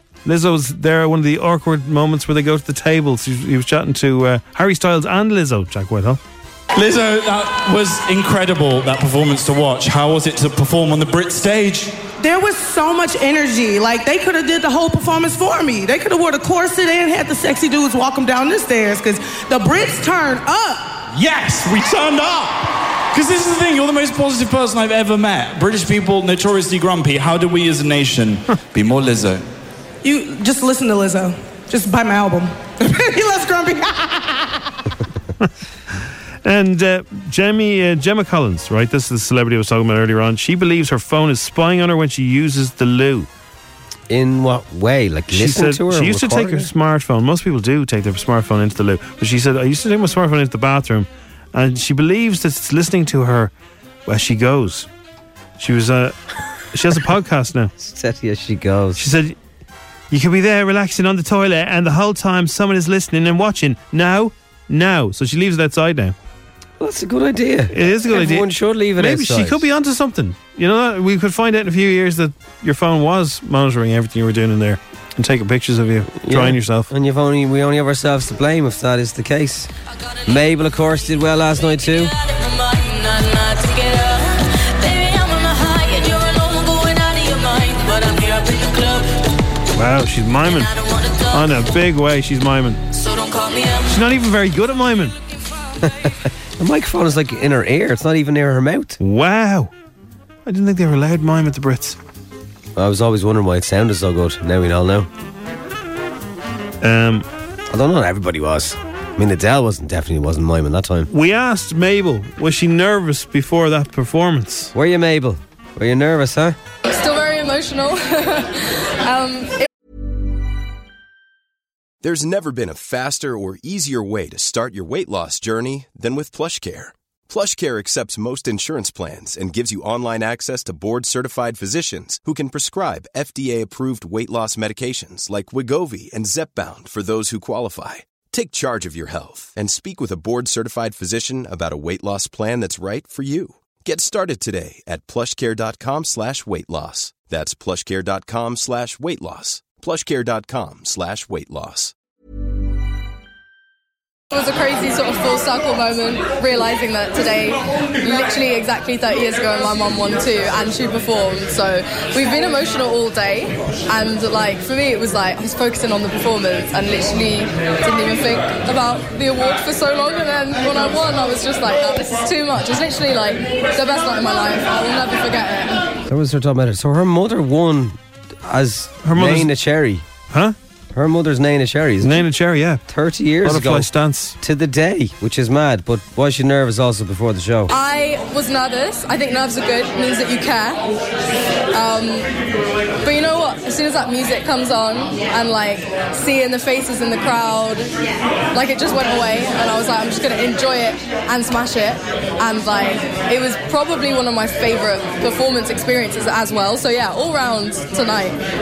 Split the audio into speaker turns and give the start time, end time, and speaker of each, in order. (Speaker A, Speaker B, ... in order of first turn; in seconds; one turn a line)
Speaker A: 0.2-6.2
Speaker B: 6.7-11.9
Speaker C: 12.2-21.0
Speaker B: 21.1-22.6
Speaker B: 23.1-29.4
Speaker C: 30.0-34.6
Speaker A: 36.4-43.3
Speaker D: 44.1-46.7
Speaker A: 45.3-53.5
Speaker A: 54.0-54.9
Speaker A: 55.6-56.1
Speaker A: 56.7-57.7
Speaker D: 57.8-59.0
Speaker A: 59.0-59.4
Speaker A: 60.1-66.1
Speaker D: 66.8-69.6
Speaker A: 67.7-76.9
Speaker D: 76.2-79.7
Speaker D: 80.2-82.1
Speaker A: 89.7-90.7
Speaker A: 91.3-92.8
Speaker A: 93.8-95.1
Speaker D: 95.8-99.0
Speaker A: 99.0-99.7
Speaker A: 100.5-102.0
Speaker D: 102.8-105.1
Speaker A: 106.8-107.2
Speaker D: 107.7-111.1
Speaker A: 111.1-114.7
Speaker D: 114.7-116.6
Speaker E: 116.8-119.7
Speaker F: 122.0-151.9
Speaker E: 154.3-175.9
Speaker D: 176.1-180.0
Speaker A: 179.0-179.5
Speaker A: 180.3-180.5
Speaker D: 180.9-182.2
Speaker A: 182.0-182.8
Speaker D: 182.9-183.9
Speaker A: 183.4-184.3
Speaker D: 184.4-187.7
Speaker E: 187.7-190.8
Speaker E: 191.7-192.3
Speaker E: 193.0-197.9
Speaker E: 198.5-208.4